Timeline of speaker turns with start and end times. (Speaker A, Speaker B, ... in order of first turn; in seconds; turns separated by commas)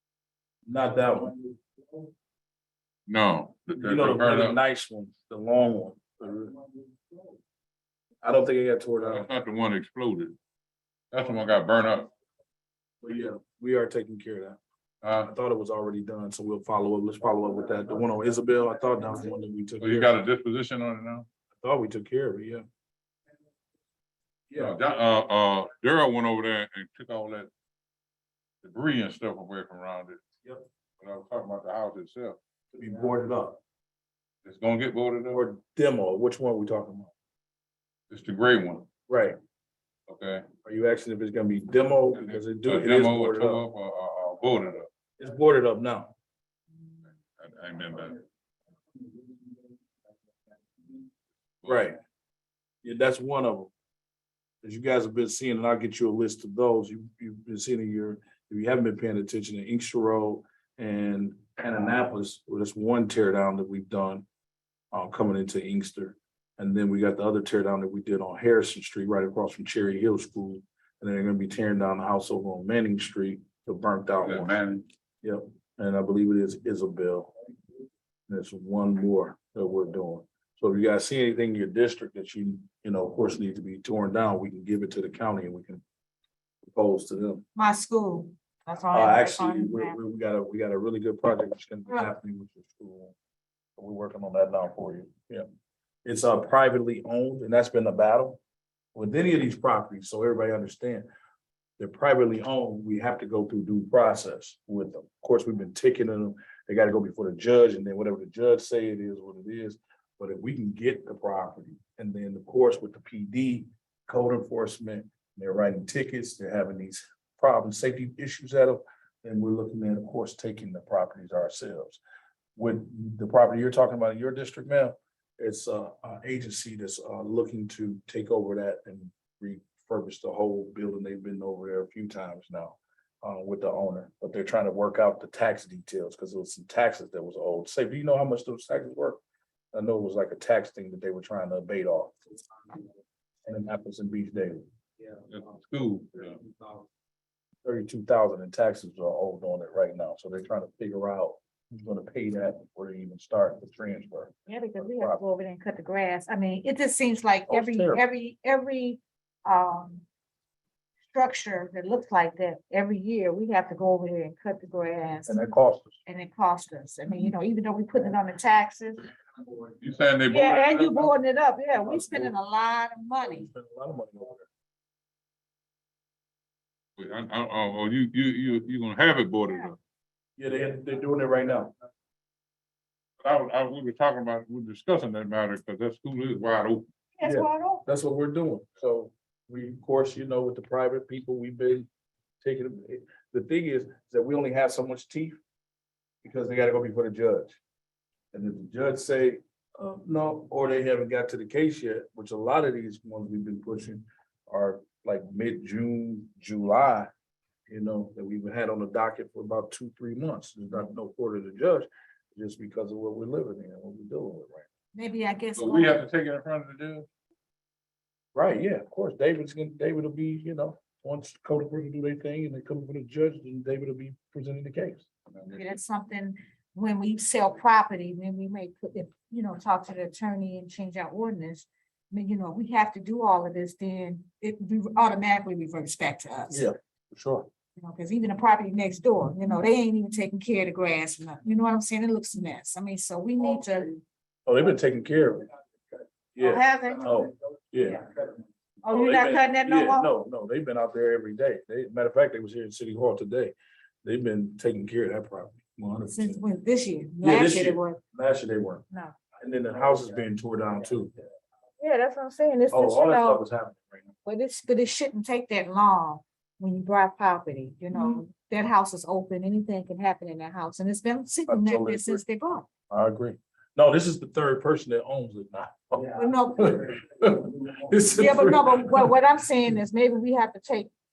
Speaker A: 0.7-1.5, Speaker B: 3.1-4.6, Speaker A: 3.8-6.6, Speaker A: 8.2-9.3, Speaker B: 9.0-10.3, Speaker B: 11.1-12.1, Speaker A: 13.0-14.6, Speaker B: 15.0-15.3, Speaker A: 15.2-20.2, Speaker B: 19.8-21.3, Speaker A: 21.6-22.6, Speaker A: 24.5-24.8, Speaker B: 24.6-27.5, Speaker B: 28.6-30.2, Speaker B: 31.0-32.4, Speaker A: 32.7-33.6, Speaker B: 34.4-35.4, Speaker A: 35.3-37.1, Speaker B: 38.1-38.9, Speaker A: 39.1-39.4, Speaker B: 40.1-40.5, Speaker A: 40.6-43.6, Speaker B: 42.1-44.9, Speaker A: 45.2-46.1, Speaker B: 47.3-48.2, Speaker A: 51.6-52.0, Speaker A: 52.8-53.7, Speaker A: 54.6-64.2, Speaker A: 64.9-74.5, Speaker B: 74.2-74.9, Speaker A: 75.2-77.3, Speaker A: 78.3-85.8, Speaker A: 86.6-87.4, Speaker C: 87.5-90.0, Speaker A: 88.9-93.2, Speaker A: 93.8-95.5, Speaker A: 96.0-98.4, Speaker A: 98.9-101.1, Speaker A: 101.8-122.0, Speaker A: 122.5-139.2, Speaker A: 139.7-142.2, Speaker A: 143.4-144.6, Speaker B: 145.3-146.4, Speaker A: 147.6-155.2, Speaker C: 154.5-160.0, Speaker A: 157.5-158.0, Speaker C: 161.1-165.5, Speaker A: 165.3-166.0, Speaker C: 166.0-169.1, Speaker B: 169.8-171.1, Speaker C: 170.3-173.5, Speaker A: 171.8-172.3, Speaker A: 173.2-174.5, Speaker B: 177.0-179.8, Speaker A: 180.4-181.7, Speaker B: 183.2-186.8, Speaker C: 187.2-187.8, Speaker A: 187.2-191.9, Speaker A: 192.4-195.4, Speaker A: 196.2-197.6, Speaker A: 198.3-207.1, Speaker A: 207.7-214.7, Speaker C: 214.9-216.0, Speaker B: 215.6-217.1, Speaker A: 218.3-225.1, Speaker C: 225.5-236.7, Speaker A: 236.5-237.5, Speaker C: 237.8-244.0, Speaker A: 244.4-245.5, Speaker A: 246.3-248.1, Speaker C: 246.4-247.2, Speaker C: 248.8-250.1, Speaker A: 248.8-256.4, Speaker C: 256.1-258.0, Speaker A: 257.2-258.8, Speaker C: 258.9-259.1, Speaker A: 259.4-261.1, Speaker C: 261.8-263.4, Speaker A: 262.7-264.1, Speaker C: 264.2-272.7, Speaker A: 271.5-272.2, Speaker A: 272.9-279.1, Speaker C: 276.1-276.8, Speaker C: 278.1-280.9